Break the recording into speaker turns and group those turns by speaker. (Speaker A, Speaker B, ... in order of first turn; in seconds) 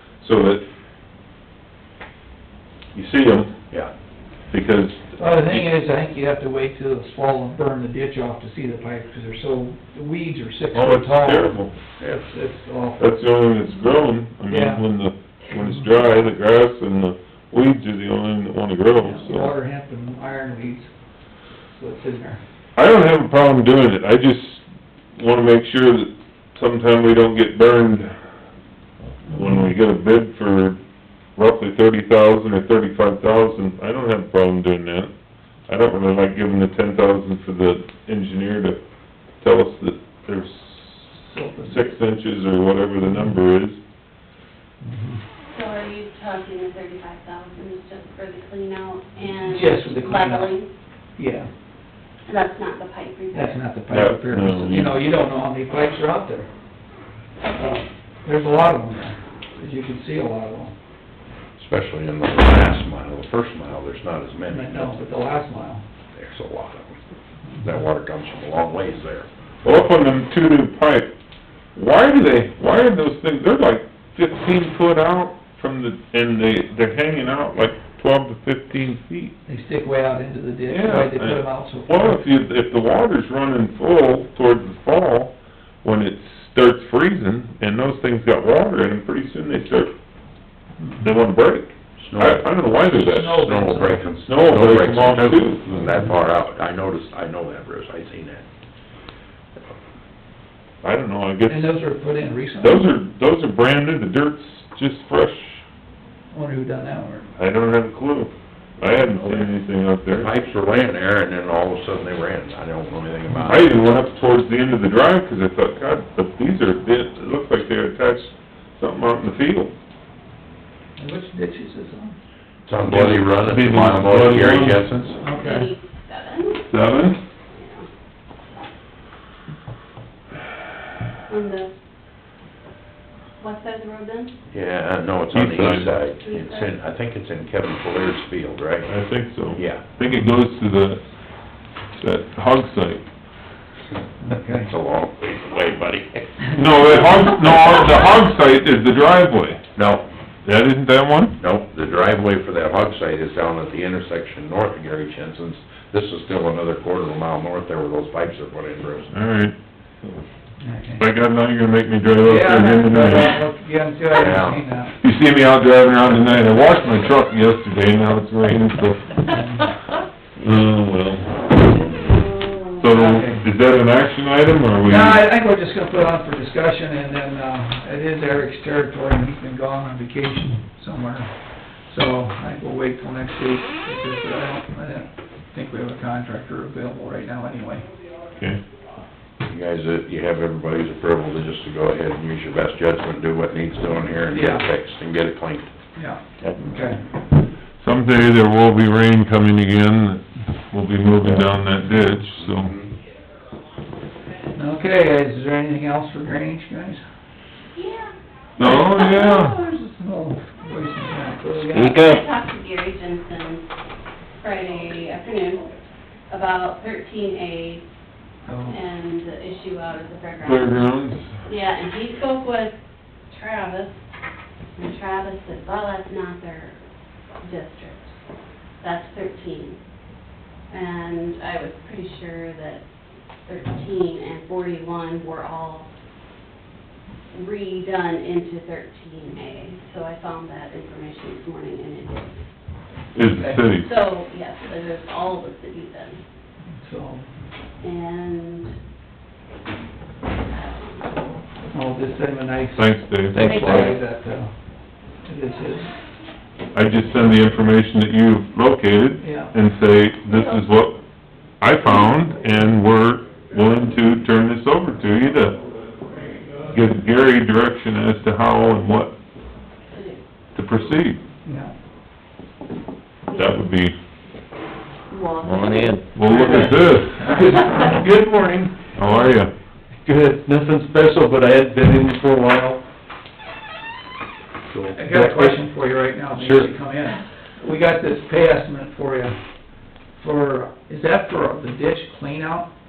Speaker A: 0.2-0.6, 2.9-3.5, 4.5-5.7, 10.7-11.7, 13.0-19.5, 22.8-24.6, 25.1-28.1, 29.2-30.8, 31.4-35.1, 35.7-38.8, 39.4-43.8, 53.9-55.0, 69.6-71.1, 71.7-79.3, 80.7-89.9, 91.0-93.4, 94.2-95.7, 100.8-101.7, 102.6-105.6, 107.4-110.3, 113.4-119.7, 122.9-124.8, 126.7-127.2, 135.3-136.0, 138.8-141.0, 141.9-143.0, 146.5-149.6, 150.4-151.4, 159.1-159.6, 161.0-163.4, 165.0-169.3, 170.4-171.7, 172.8-175.2, 188.3-188.6, 197.8-202.7, 208.6-209.6, 220.4-221.3, 243.1-243.9, 252.8-253.6, 256.7-261.0, 261.6-265.6, 266.7-269.1, 270.5-271.2, 273.3-273.9, 276.1-277.5, 278.9-279.5
Speaker B: 5.2-11.6, 12.2-13.1, 14.5-14.8, 18.9-20.9, 21.7-22.4, 41.2-41.9, 44.8-45.2, 49.4-50.5, 51.2-51.5, 53.3-56.5, 57.5-60.7, 64.5-65.8, 79.5-82.2, 92.9-94.0, 101.5-102.9, 106.3-107.3, 121.0-122.2, 125.2-125.7, 144.2-144.7, 160.6-161.0, 162.2-164.9, 169.3-169.7, 172.8-173.4, 174.8-181.3, 181.9-187.8, 194.3-194.6, 195.9-197.0, 204.5-207.0, 208.6-211.9, 218.5-218.8, 243.4-243.6, 246.7-247.3, 251.7-254.5, 255.2-255.9, 259.2-259.5, 271.4-271.7, 276.1-278.8, 284.9-289.4, 290.1-292.7
Speaker C: 12.0-12.3, 61.6-65.0, 66.1-67.0, 67.6-69.3, 92.0-92.7, 93.3-98.5, 109.1-109.5, 110.1-113.7, 122.7-125.2, 134.5-138.9, 139.5-139.8, 144.6-146.9, 149.8-150.1, 151.4-159.1, 164.1-164.6, 189.4-195.7, 202.5-202.9
Speaker D: 45.5-50.7, 52.2-53.6, 57.5-57.8, 125.3-126.8, 127.5-127.9, 131.3-131.7, 133.4-134.3, 136.2-136.8, 171.9-172.7, 207.7-208.1, 208.8-209.2, 211.8-213.7, 214.4-215.7, 216.3-217.8, 218.7-220.9, 221.4-222.8, 223.3-224.0, 224.8-226.8, 227.4-228.2, 228.8-229.8, 230.7-232.8, 233.4-235.9, 237.3-242.4, 243.7-246.2, 247.8-248.7, 250.4-251.2, 253.4-254.0, 260.2-260.9, 269.9-270.2, 275.1-276.8
Speaker E: 211.7-212.2, 253.3-254.0, 275.5-276.0, 280.1-282.8, 284.7-285.6, 286.3-286.6